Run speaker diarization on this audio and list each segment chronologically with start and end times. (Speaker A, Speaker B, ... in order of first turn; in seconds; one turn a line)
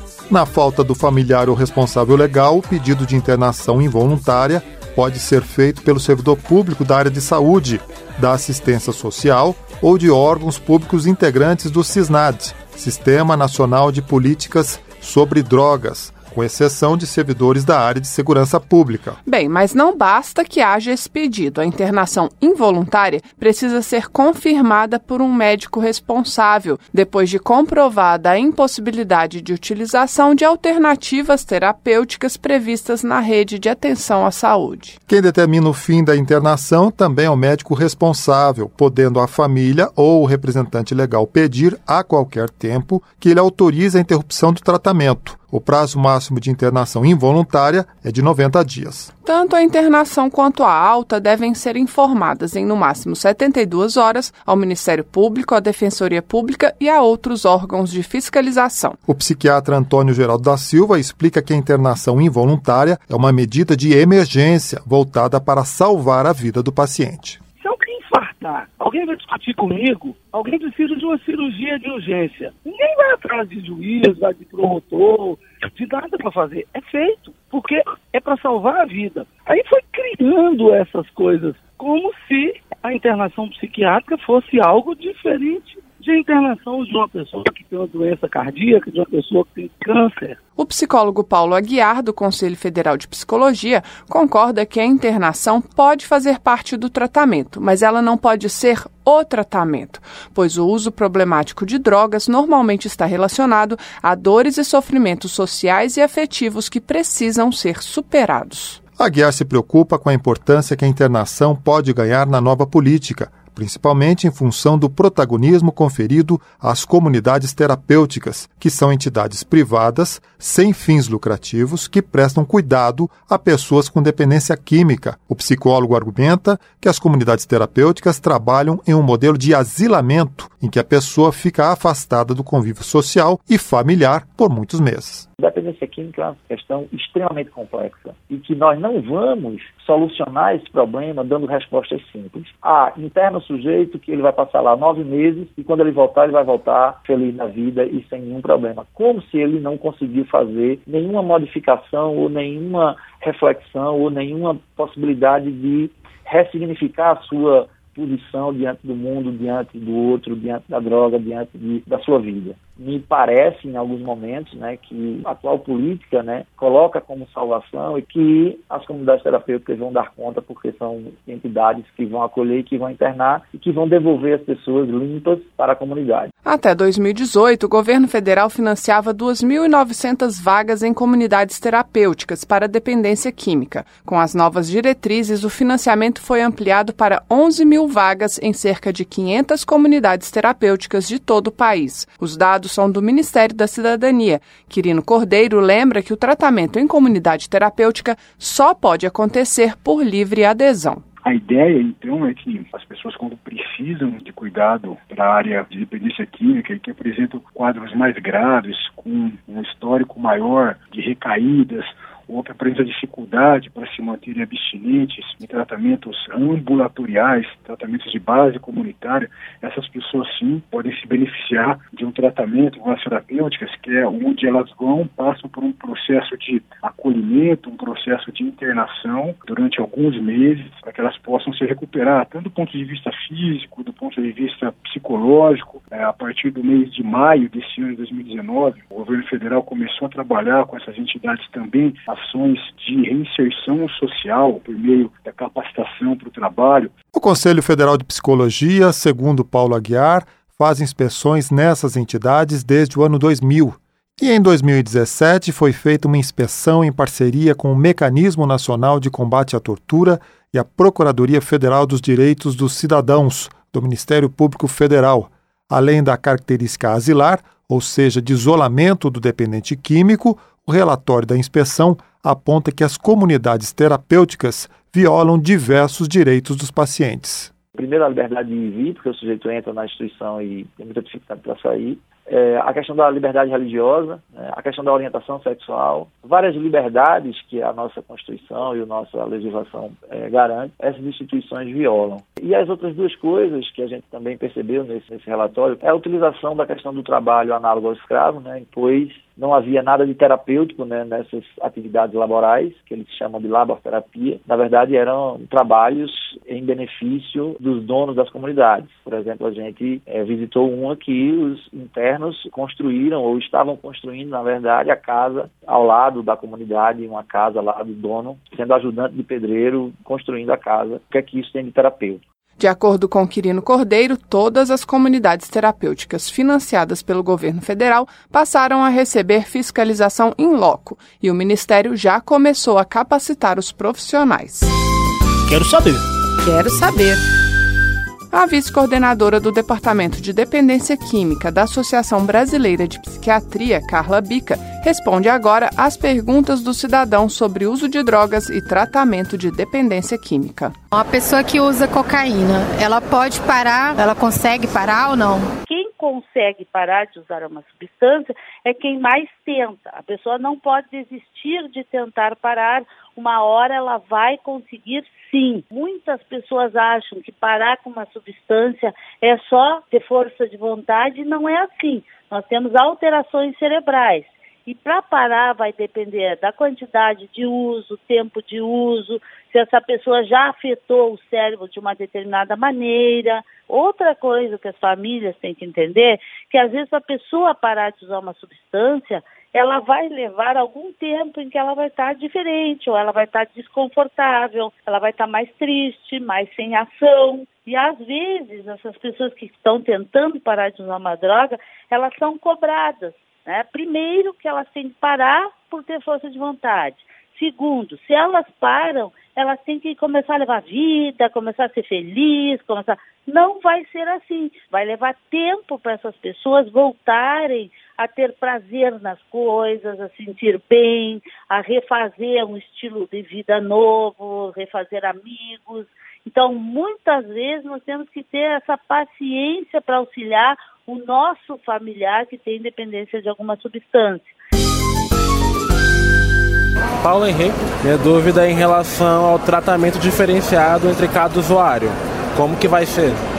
Speaker A: 0.3-19.2
Speaker B: 19.2-35.0
Speaker A: 35.1-49.1
Speaker B: 49.2-59.0
Speaker A: 59.1-67.4
Speaker C: 67.6-90.4
Speaker B: 90.6-108.8
Speaker A: 109.0-135.2
Speaker D: 135.4-176.3
Speaker B: 176.4-201.0
Speaker E: 201.2-246.9
Speaker A: 247.1-277.5
Speaker D: 277.8-322.2
Speaker B: 322.6-334.7
Speaker B: 336.4-337.2
Speaker B: 338.3-350.8
Speaker F: 350.9-355.5
Speaker G: 355.6-434.3
Speaker H: 437.0-443.2